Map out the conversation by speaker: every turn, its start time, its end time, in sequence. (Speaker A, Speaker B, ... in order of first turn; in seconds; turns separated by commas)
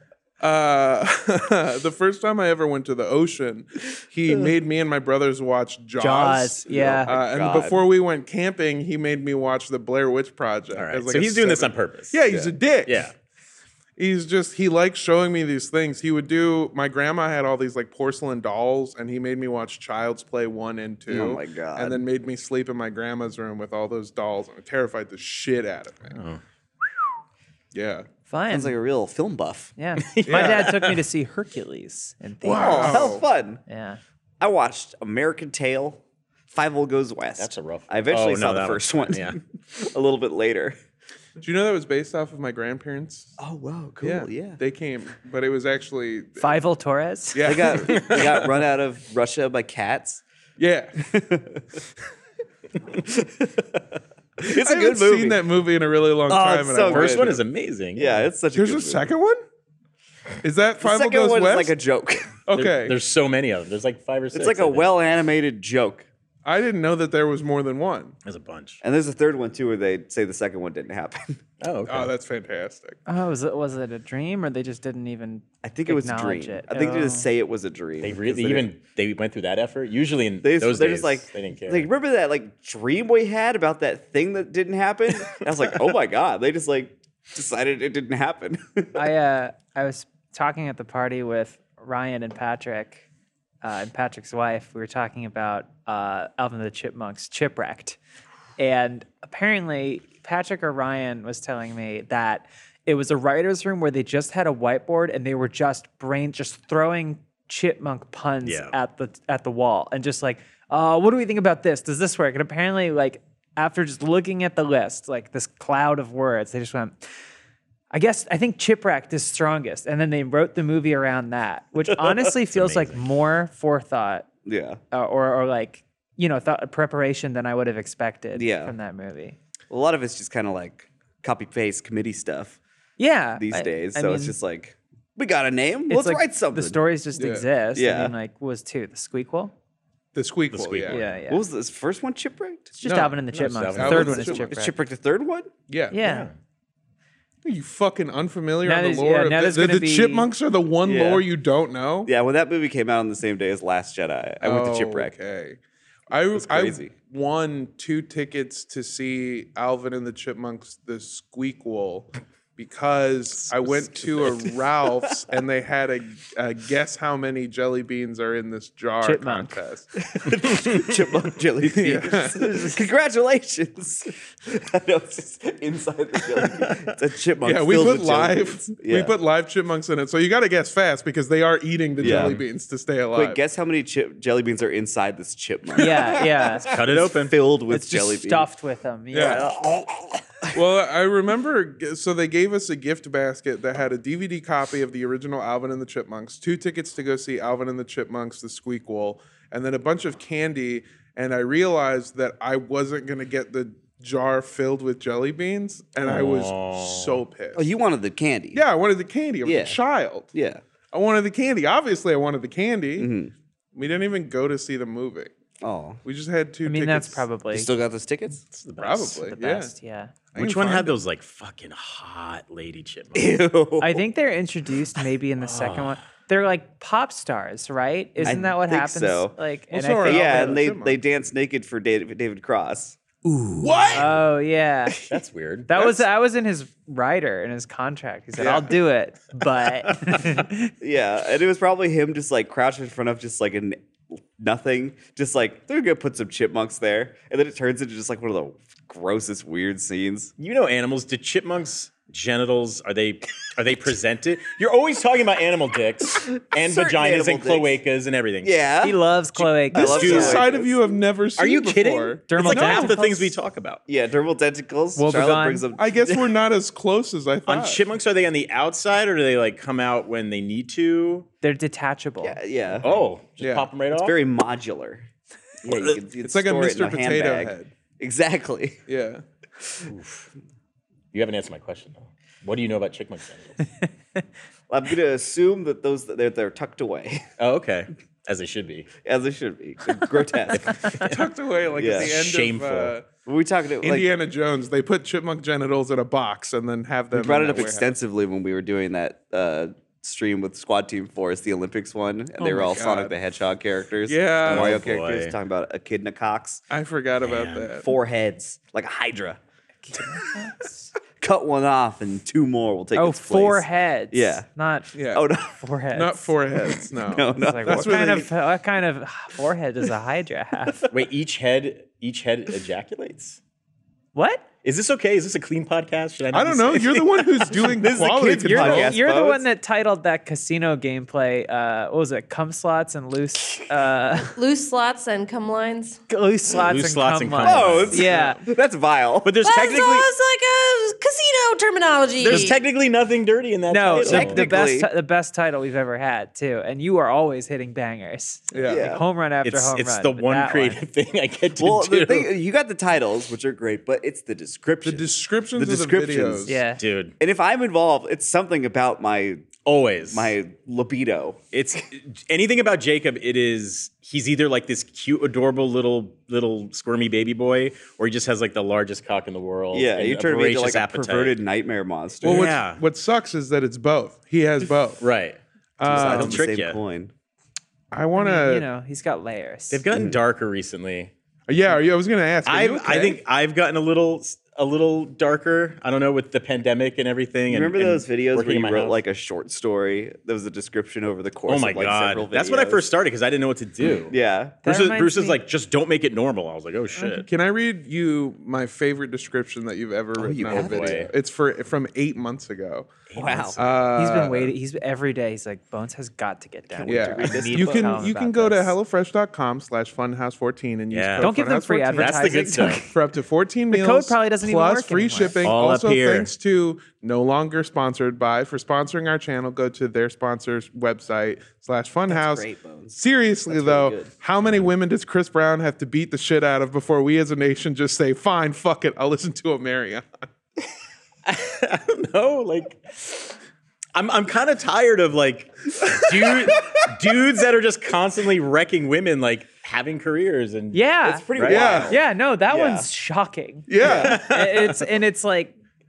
Speaker A: 0.4-13.0, Speaker B: 6.0-7.1, Speaker C: 6.7-7.8, Speaker D: 10.8-12.2, Speaker C: 12.3-12.5, Speaker D: 12.9-13.1, Speaker A: 14.0-26.2, Speaker C: 21.1-22.0, Speaker D: 26.1-26.4, Speaker A: 27.7-28.1, Speaker B: 28.3-28.8, Speaker C: 28.5-29.7, Speaker B: 29.8-33.1, Speaker D: 30.0-31.0, Speaker A: 30.3-30.7, Speaker A: 32.4-33.2, Speaker C: 32.4-33.6, Speaker B: 33.7-34.0, Speaker C: 34.4-40.8, Speaker D: 37.4-39.4, Speaker A: 41.4-43.4, Speaker C: 43.4-44.6, Speaker A: 44.0-46.5, Speaker B: 46.4-47.7, Speaker A: 47.3-48.1, Speaker C: 47.4-50.2, Speaker D: 47.9-48.5, Speaker A: 50.6-51.0, Speaker C: 51.0-51.6, Speaker C: 52.9-55.4, Speaker A: 54.4-57.4, Speaker C: 56.3-57.4, Speaker D: 56.8-58.3, Speaker C: 58.0-59.1, Speaker A: 58.5-59.4, Speaker A: 60.4-61.8, Speaker C: 60.8-62.3, Speaker A: 62.5-63.0, Speaker D: 62.5-64.9, Speaker C: 64.3-66.1, Speaker A: 66.5-68.2, Speaker D: 68.2-68.8, Speaker C: 68.8-71.4, Speaker D: 71.6-72.1, Speaker A: 71.9-73.0, Speaker B: 73.1-77.3, Speaker C: 75.6-78.7, Speaker D: 78.0-81.9, Speaker C: 80.4-89.1, Speaker B: 89.0-93.0, Speaker B: 93.6-98.0, Speaker B: 98.6-117.0, Speaker D: 108.4-108.7, Speaker B: 117.9-124.3, Speaker D: 122.5-123.0, Speaker C: 124.5-124.8, Speaker B: 124.9-129.4, Speaker C: 128.3-128.7, Speaker C: 129.7-132.6, Speaker B: 133.0-134.4, Speaker C: 133.4-136.8, Speaker B: 135.9-139.5, Speaker A: 137.2-137.5, Speaker C: 137.8-138.1, Speaker A: 140.1-141.0, Speaker D: 140.5-141.1, Speaker B: 140.9-141.4, Speaker C: 141.3-142.7, Speaker B: 142.7-144.8, Speaker A: 142.8-143.2, Speaker D: 143.3-144.3, Speaker A: 143.7-144.5, Speaker C: 144.0-145.5, Speaker A: 145.7-146.0, Speaker B: 145.9-146.3, Speaker D: 146.0-146.3, Speaker A: 147.4-152.1, Speaker B: 148.6-150.3, Speaker C: 150.8-151.3, Speaker C: 152.1-155.1, Speaker A: 154.4-155.6, Speaker A: 156.1-170.0, Speaker C: 156.3-156.9, Speaker C: 163.7-164.5, Speaker B: 169.0-169.6, Speaker C: 170.1-179.1, Speaker A: 171.7-172.7, Speaker A: 177.4-183.4, Speaker C: 182.0-182.4, Speaker D: 182.0-182.4, Speaker C: 183.1-188.5, Speaker B: 185.8-186.7, Speaker D: 186.6-187.3, Speaker B: 187.7-189.6, Speaker A: 189.1-189.5, Speaker C: 189.2-189.9, Speaker A: 190.5-207.7, Speaker D: 206.0-207.2, Speaker C: 207.6-208.6, Speaker A: 208.5-210.3, Speaker C: 209.4-209.8, Speaker C: 210.3-210.6, Speaker A: 210.9-213.1, Speaker C: 213.0-213.3, Speaker A: 213.8-215.3, Speaker C: 215.6-216.0, Speaker A: 216.0-217.2, Speaker B: 216.7-217.7, Speaker C: 217.5-218.4, Speaker D: 218.5-219.2, Speaker A: 218.8-219.7, Speaker B: 219.2-220.1, Speaker A: 220.3-221.0, Speaker D: 220.4-223.4, Speaker C: 223.2-224.0, Speaker B: 223.8-230.6, Speaker D: 225.4-226.0, Speaker C: 228.2-229.3, Speaker A: 229.7-231.0, Speaker C: 230.0-233.0, Speaker A: 233.6-234.2, Speaker B: 233.8-235.0, Speaker D: 235.1-235.9, Speaker B: 235.7-240.7, Speaker A: 238.4-238.8, Speaker D: 239.9-240.2, Speaker C: 240.8-243.8, Speaker C: 244.4-250.3, Speaker D: 250.4-258.6, Speaker C: 256.2-257.8, Speaker C: 258.4-259.0, Speaker B: 258.8-260.4, Speaker D: 259.4-260.5, Speaker C: 259.7-260.9, Speaker A: 259.8-263.0, Speaker D: 261.4-263.8, Speaker B: 262.3-263.3, Speaker C: 263.9-266.3, Speaker B: 265.0-265.7, Speaker A: 265.8-267.8, Speaker D: 267.5-271.3, Speaker B: 271.4-272.4, Speaker C: 272.2-273.0, Speaker D: 272.8-274.2, Speaker A: 273.4-273.7, Speaker C: 273.9-275.1, Speaker C: 275.6-278.8, Speaker A: 276.2-277.7, Speaker A: 278.9-279.2, Speaker D: 279.8-280.3, Speaker D: 281.1-283.7, Speaker C: 284.7-287.3, Speaker D: 287.4-288.9, Speaker C: 289.0-291.0, Speaker D: 290.5-292.9, Speaker A: 291.1-293.1, Speaker C: 291.8-292.1, Speaker C: 293.3-294.1, Speaker A: 293.8-297.9, Speaker C: 297.1-306.6, Speaker A: 302.4-303.1, Speaker A: 304.1-304.8, Speaker D: 304.4-305.3, Speaker A: 306.7-307.9, Speaker D: 307.2-307.7, Speaker C: 307.8-309.4, Speaker B: 309.8-310.9, Speaker C: 311.2-314.5, Speaker B: 312.9-315.0, Speaker A: 314.9-315.2, Speaker C: 315.1-315.6, Speaker B: 315.5-316.3, Speaker A: 315.9-318.3, Speaker C: 316.6-318.3, Speaker B: 317.3-320.9, Speaker D: 320.9-323.4, Speaker B: 324.1-324.4, Speaker D: 324.6-327.9, Speaker A: 326.3-329.0, Speaker C: 327.6-329.4, Speaker B: 328.4-334.4, Speaker E: 334.4-336.0, Speaker B: 336.1-338.4, Speaker D: 336.6-338.1, Speaker C: 337.4-339.4, Speaker A: 338.0-338.4, Speaker D: 339.2-340.1, Speaker E: 339.4-342.6, Speaker D: 342.2-344.5, Speaker B: 343.7-350.8, Speaker C: 343.9-344.9, Speaker A: 348.5-348.9, Speaker C: 348.7-349.1, Speaker D: 349.4-352.3, Speaker C: 351.6-356.5, Speaker A: 354.8-356.6, Speaker B: 356.5-356.8, Speaker D: 356.8-357.1, Speaker C: 357.2-359.5, Speaker D: 359.7-360.4, Speaker C: 360.1-361.4, Speaker D: 361.5-371.4, Speaker C: 369.7-372.5, Speaker D: 372.2-372.8, Speaker A: 372.2-375.0, Speaker D: 375.0-376.8, Speaker A: 375.8-376.4, Speaker C: 375.9-377.1, Speaker A: 377.9-378.7, Speaker B: 378.2-379.8, Speaker D: 379.7-381.1, Speaker C: 379.9-380.2, Speaker A: 381.5-383.2, Speaker D: 382.5-389.0, Speaker C: 387.5-392.9, Speaker D: 391.5-397.3, Speaker C: 394.1-394.6, Speaker B: 394.6-395.4, Speaker A: 397.2-402.9, Speaker C: 400.2-401.1, Speaker D: 400.4-401.1, Speaker D: 403.1-403.8, Speaker C: 403.2-403.6, Speaker A: 403.6-404.5, Speaker B: 403.9-408.8, Speaker C: 406.7-408.1, Speaker A: 406.9-412.2, Speaker D: 410.9-411.3, Speaker B: 411.2-412.8, Speaker D: 412.0-412.8, Speaker C: 412.2-412.8, Speaker A: 412.8-430.1, Speaker B: 413.7-415.4, Speaker D: 415.4-416.3, Speaker C: 422.1-424.1, Speaker D: 431.3-433.4, Speaker D: 433.9-440.8, Speaker B: 440.7-441.2, Speaker C: 441.0-442.9, Speaker D: 441.4-441.6, Speaker A: 441.4-441.9, Speaker B: 441.8-445.5, Speaker A: 443.7-444.2, Speaker C: 443.8-444.2, Speaker D: 443.9-444.8